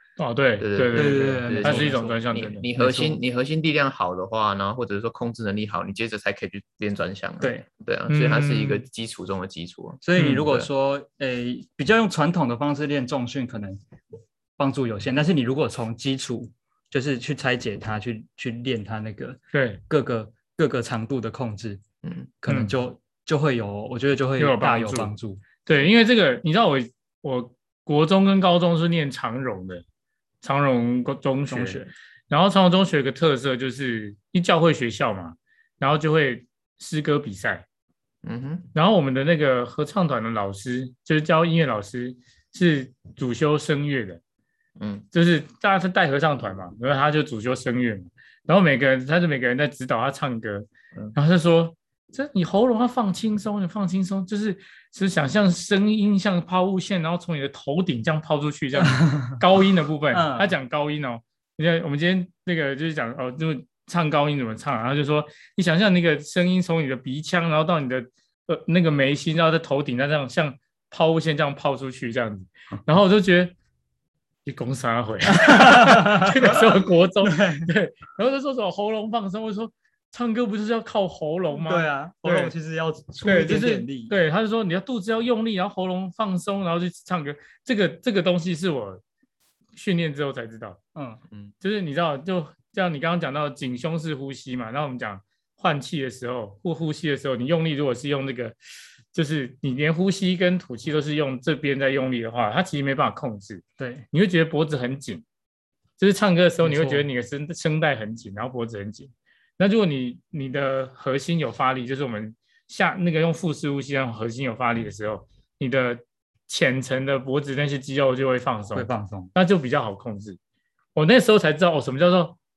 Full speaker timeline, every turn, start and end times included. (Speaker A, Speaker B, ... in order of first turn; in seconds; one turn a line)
Speaker A: 0.2-2.7
Speaker B: 0.6-10.7
Speaker C: 0.9-2.1
Speaker C: 2.8-3.1
Speaker C: 7.4-7.7
Speaker A: 8.1-8.8
Speaker C: 10.0-13.8
Speaker A: 10.2-10.5
Speaker C: 14.6-21.8
Speaker A: 19.5-19.8
Speaker B: 22.0-22.3
Speaker C: 22.4-25.4
Speaker A: 22.5-22.7
Speaker A: 24.4-25.1
Speaker A: 25.6-29.8
Speaker A: 30.4-37.6
Speaker C: 31.5-31.9
Speaker B: 38.2-38.7
Speaker A: 38.7-44.2
Speaker B: 44.8-45.0
Speaker A: 45.1-73.5
Speaker C: 58.9-59.4
Speaker C: 60.1-60.5
Speaker A: 74.4-82.5
Speaker C: 75.3-76.6
Speaker C: 77.2-77.7
Speaker C: 81.7-84.1
Speaker A: 83.2-89.0
Speaker A: 89.7-90.8
Speaker C: 90.9-91.2
Speaker A: 91.6-98.6
Speaker A: 99.1-105.2
Speaker C: 103.8-104.0
Speaker A: 106.0-120.4
Speaker C: 106.6-107.1
Speaker C: 118.7-119.3
Speaker A: 120.9-122.4